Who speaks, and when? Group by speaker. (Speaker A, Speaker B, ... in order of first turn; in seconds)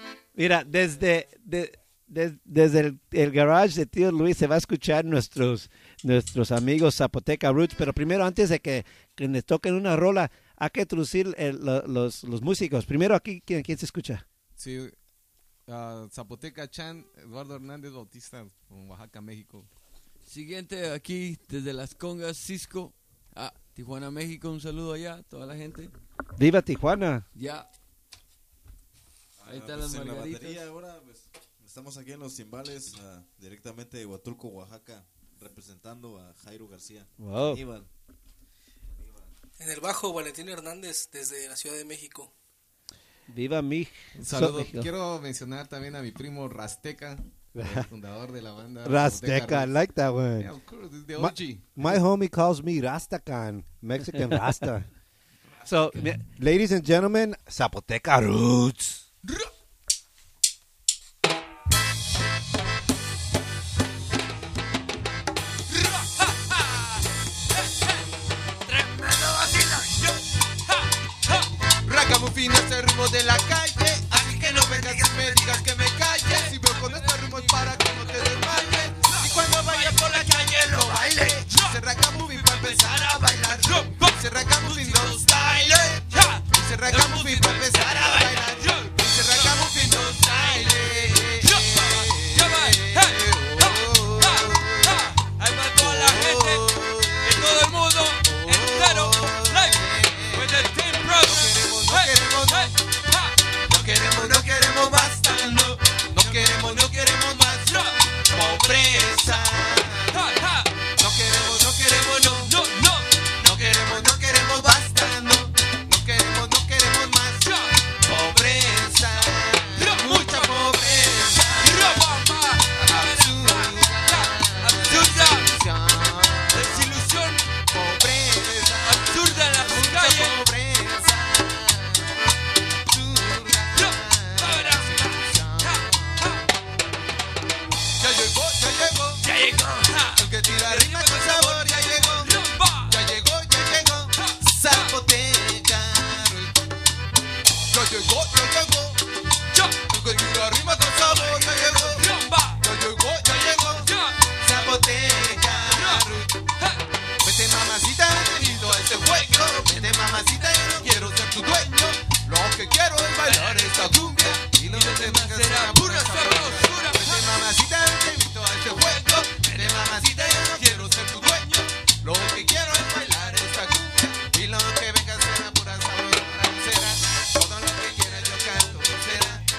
Speaker A: 0.3-14.2, 26.4-27.2, 37.2-37.6, 43.3-44.9, 55.6-56.2
Speaker B: 14.6-14.9, 15.7-19.7, 44.1-49.7, 50.4-51.7, 74.3-75.2, 76.4-78.3, 164.4-165.8, 166.5-166.8, 173.2-173.7, 178.2-179.1
Speaker C: 20.3-25.9, 27.3-27.7, 29.4-30.6, 65.7-68.0, 68.6-71.5, 74.2-96.7, 97.2-99.8, 100.3-105.7, 106.2-109.5, 110.0-110.7, 112.1-114.0, 117.4-117.7, 119.8-125.6, 126.5-127.4, 128.8-130.4, 133.7-136.4, 139.2-143.0, 144.1-144.9, 149.5-149.9, 151.1-152.6, 153.4-154.7, 155.4-156.8, 159.5-161.7, 163.3-167.4, 168.7-171.7
Speaker D: 29.4-37.9, 39.0-39.3
Speaker E: 39.6-42.3
Speaker F: 47.5-47.9, 48.8-50.5, 51.1-54.9, 56.2-59.0
Speaker G: 72.5-94.8, 95.8-97.4, 98.3-100.5, 101.3-102.7, 103.7-107.7, 108.3-110.2, 111.0-112.5, 113.4-117.5, 118.0-121.9, 123.1-126.7, 127.7-131.8, 132.9-136.1, 138.2-139.2, 140.2-142.3, 142.9-146.4, 147.8-149.0, 150.3-152.0, 152.6-153.9, 154.4-156.3, 157.5-158.5, 159.2-164.5, 165.8-166.5, 167.1-171.4, 172.2-179.4